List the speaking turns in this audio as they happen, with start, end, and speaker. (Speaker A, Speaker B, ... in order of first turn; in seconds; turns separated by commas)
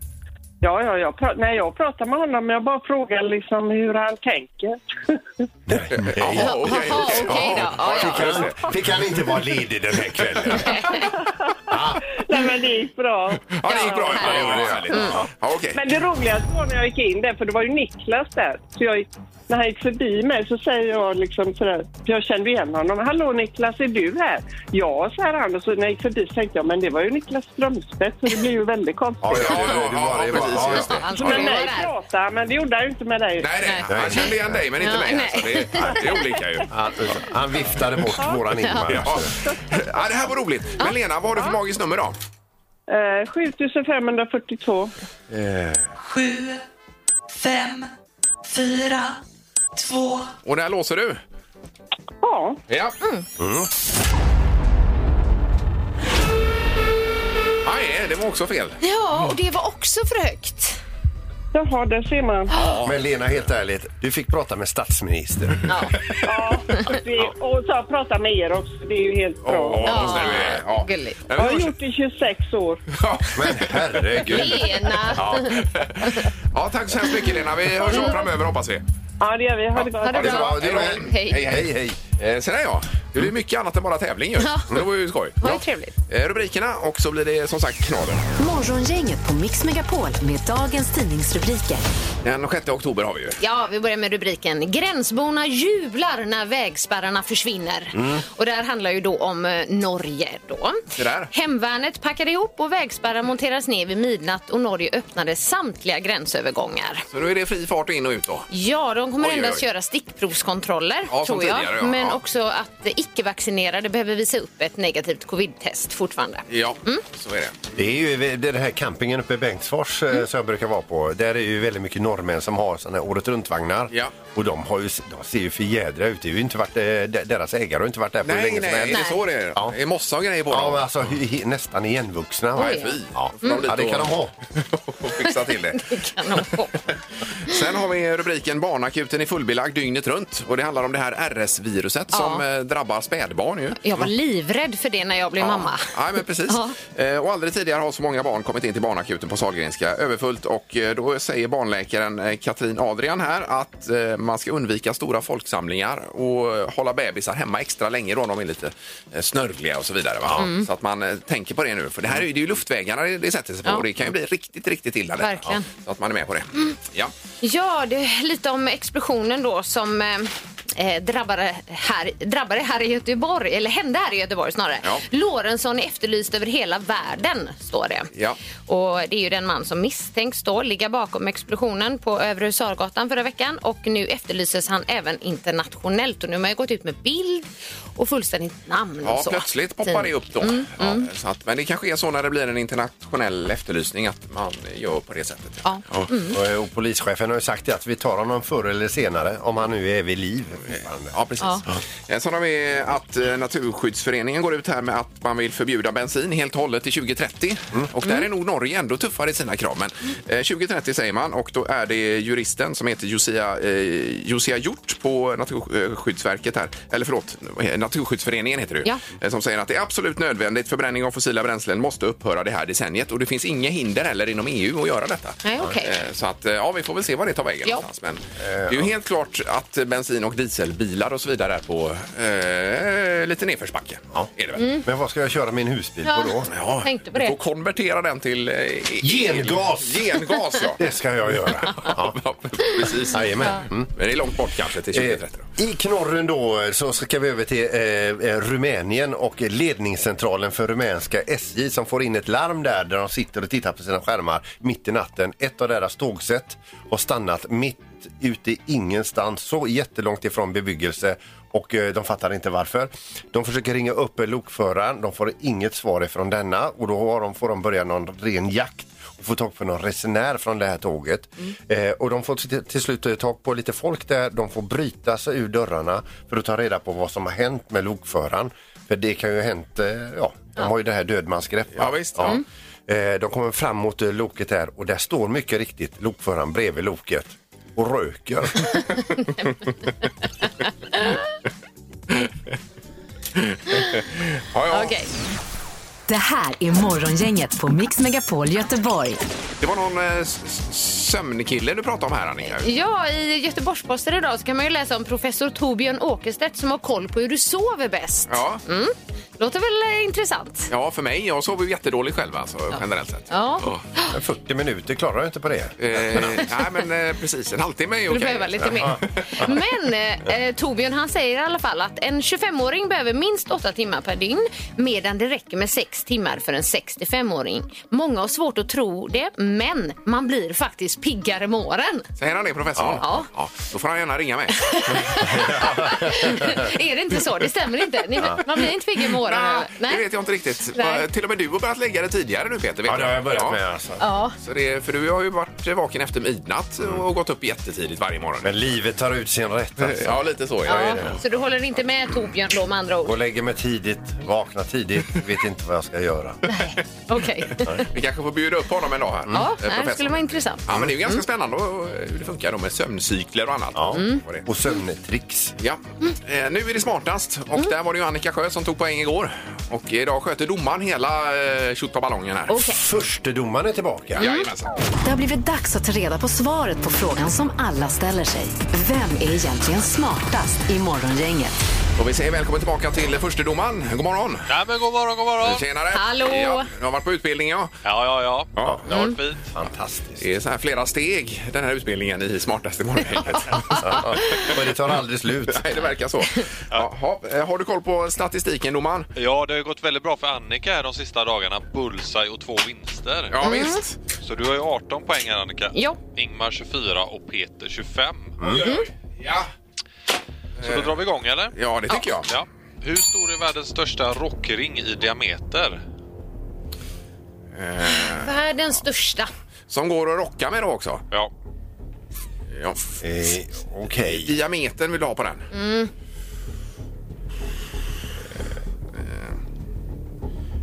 Speaker A: 0.6-4.8, Speaker B: 5.7-10.9, Speaker C: 5.9-8.9, Speaker D: 6.3-8.5, Speaker C: 10.2-10.7, Speaker D: 10.5-11.1, Speaker A: 11.2-14.7, Speaker B: 11.7-12.1, Speaker C: 13.5-15.8, Speaker D: 13.7-15.2, Speaker B: 14.3-15.2, Speaker A: 15.7-29.4, Speaker B: 29.2-31.4, Speaker C: 29.3-31.5, Speaker D: 30.6-31.9, Speaker A: 31.2-33.5, Speaker C: 33.4-36.7, Speaker D: 33.6-34.2, Speaker B: 33.9-34.7, Speaker D: 34.8-36.1, Speaker B: 35.7-36.1, Speaker B: 36.6-39.3, Speaker D: 38.6-39.0, Speaker C: 38.9-42.1, Speaker A: 42.9-44.9, Speaker B: 45.3-45.9, Speaker E: 46.0-46.6, Speaker E: 47.3-47.9, Speaker E: 48.5-49.2, Speaker E: 49.7-50.3, Speaker C: 50.4-51.2, Speaker A: 52.2-52.6, Speaker C: 52.7-53.0, Speaker B: 53.4-53.7, Speaker C: 57.6-58.8, Speaker D: 58.8-60.8, Speaker A: 61.5-62.5, Speaker D: 62.5-62.8, Speaker C: 62.5-63.0, Speaker B: 62.8-65.7, Speaker D: 65.7-66.0, Speaker A: 66.2-70.1, Speaker C: 69.4-71.7, Speaker D: 69.8-71.2, Speaker A: 71.4-72.8, Speaker C: 72.9-74.4, Speaker B: 73.3-75.5, Speaker D: 74.3-76.2, Speaker C: 75.1-78.8, Speaker D: 77.8-78.3, Speaker A: 79.2-80.4, Speaker C: 79.7-88.2, Speaker D: 80.0-81.4, Speaker B: 80.1-82.0, Speaker D: 84.4-84.7, Speaker D: 85.4-85.9, Speaker F: 88.4-91.8, Speaker C: 92.2-93.4, Speaker D: 93.4-107.0, Speaker B: 97.9-98.2, Speaker C: 101.0-101.3, Speaker C: 107.1-108.5, Speaker D: 108.5-117.0, Speaker C: 109.2-109.6, Speaker C: 111.1-112.2, Speaker C: 116.5-117.6, Speaker B: 117.8-129.0, Speaker C: 128.2-130.9, Speaker D: 128.9-129.2, Speaker B: 130.5-134.3, Speaker D: 132.6-133.6, Speaker C: 132.6-136.4, Speaker D: 135.3-136.8, Speaker C: 137.4-144.1, Speaker D: 142.1-142.4, Speaker D: 143.8-145.9, Speaker C: 145.4-167.1, Speaker D: 146.5-146.7, Speaker D: 160.4-160.7, Speaker D: 165.2-165.7, Speaker D: 167.4-178.1, Speaker C: 178.1-178.4, Speaker D: 178.7-191.1, Speaker C: 189.0-196.1, Speaker D: 195.6-196.3, Speaker B: 196.3-201.2, Speaker C: 200.7-234.7, Speaker D: 225.4-225.9, Speaker B: 228.4-228.9, Speaker B: 234.1-236.5, Speaker D: 234.6-234.8, Speaker D: 236.0-237.4, Speaker C: 236.5-240.8, Speaker B: 239.0-240.2, Speaker B: 240.8-242.2, Speaker C: 241.3-245.5, Speaker B: 243.0-243.9, Speaker B: 244.9-288.7, Speaker C: 281.8-282.4, Speaker D: 290.9-291.2, Speaker C: 293.4-294.9, Speaker D: 294.7-295.1, Speaker F: 296.1-299.2, Speaker C: 299.6-302.7, Speaker D: 302.5-310.7, Speaker C: 308.3-308.6, Speaker C: 310.7-313.8, Speaker D: 313.3-314.1, Speaker B: 314.1-316.4, Speaker C: 315.8-319.5, Speaker D: 318.1-332.1, Speaker B: 318.7-319.0, Speaker C: 332.2-335.1, Speaker D: 333.0-333.3, Speaker D: 334.6-340.0, Speaker B: 335.1-336.6, Speaker C: 339.0-343.6, Speaker D: 340.7-341.0, Speaker B: 342.9-344.1, Speaker D: 344.0-344.3, Speaker C: 344.4-348.6, Speaker B: 348.4-351.2, Speaker C: 349.8-351.2, Speaker D: 350.7-353.1, Speaker B: 353.0-356.4, Speaker D: 356.5-357.8, Speaker C: 357.8-364.4, Speaker D: 359.3-361.2, Speaker B: 363.7-365.5, Speaker D: 363.9-364.2, Speaker C: 365.6-372.6, Speaker D: 372.5-372.8, Speaker B: 372.6-374.2, Speaker C: 374.2-374.7, Speaker D: 374.2-374.5, Speaker F: 375.0-381.6, Speaker C: 382.0-384.5, Speaker G: 384.5-385.6, Speaker C: 385.4-387.8, Speaker D: 385.9-386.7, Speaker G: 387.8-389.4, Speaker D: 388.9-389.2, Speaker B: 389.5-390.2, Speaker C: 390.2-394.0, Speaker D: 393.5-394.5, Speaker B: 393.8-395.7, Speaker C: 395.5-399.1, Speaker G: 399.1-403.5, Speaker C: 403.3-404.0, Speaker D: 403.4-403.8, Speaker G: 404.2-408.4, Speaker D: 405.7-406.0, Speaker C: 408.5-409.5, Speaker D: 408.5-408.8, Speaker G: 410.6-415.8, Speaker C: 410.6-410.9, Speaker C: 411.5-412.3, Speaker C: 417.5-418.3, Speaker D: 417.9-419.3, Speaker C: 419.7-421.0, Speaker C: 422.5-422.8, Speaker B: 423.0-424.3, Speaker C: 423.9-425.5, Speaker D: 425.5-425.9, Speaker C: 429.0-429.3